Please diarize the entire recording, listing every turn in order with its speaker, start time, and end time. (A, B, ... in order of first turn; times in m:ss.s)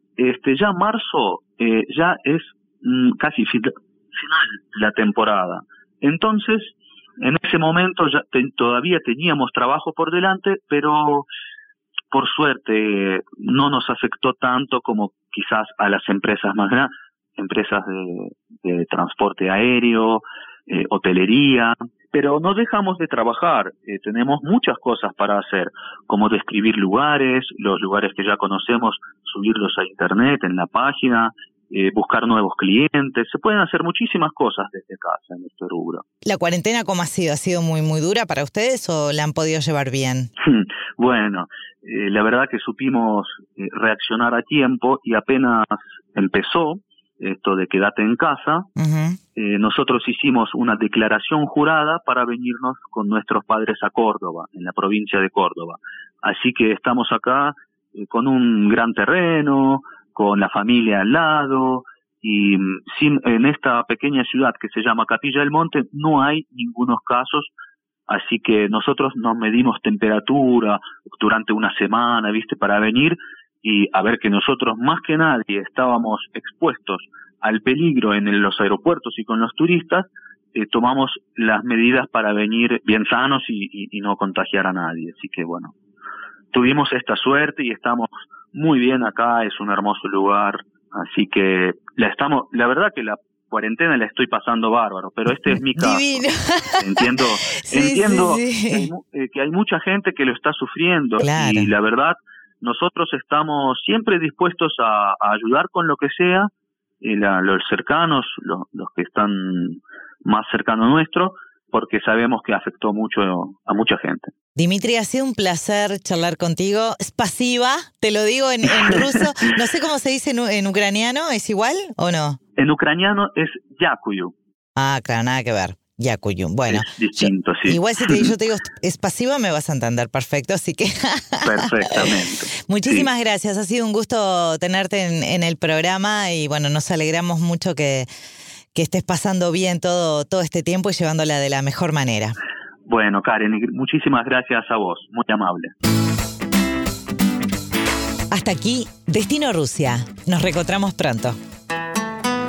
0:00.2-0:11.3 A
0:12.1-0:36.0 A
0:36.2-0:40.3 B
0:40.4-0:48.7 A
0:48.8-0:49.2 B
0:49.3-1:07.5 A
1:08.1-1:25.7 A
1:26.5-1:36.3 A
1:35.3-1:37.1 B
1:36.8-1:46.5 A
1:37.6-1:38.9 B
1:41.2-1:41.7 B
1:47.0-1:54.3 A
1:54.6-2:02.4 B
1:58.7-1:59.3 A
2:02.6-2:04.3 A
2:04.8-2:11.6 B
2:06.7-2:08.3 A
2:11.4-2:13.1 A
2:12.6-2:18.1 B
2:18.7-2:22.3 B
2:22.8-2:25.7 A
2:28.3-2:31.4 B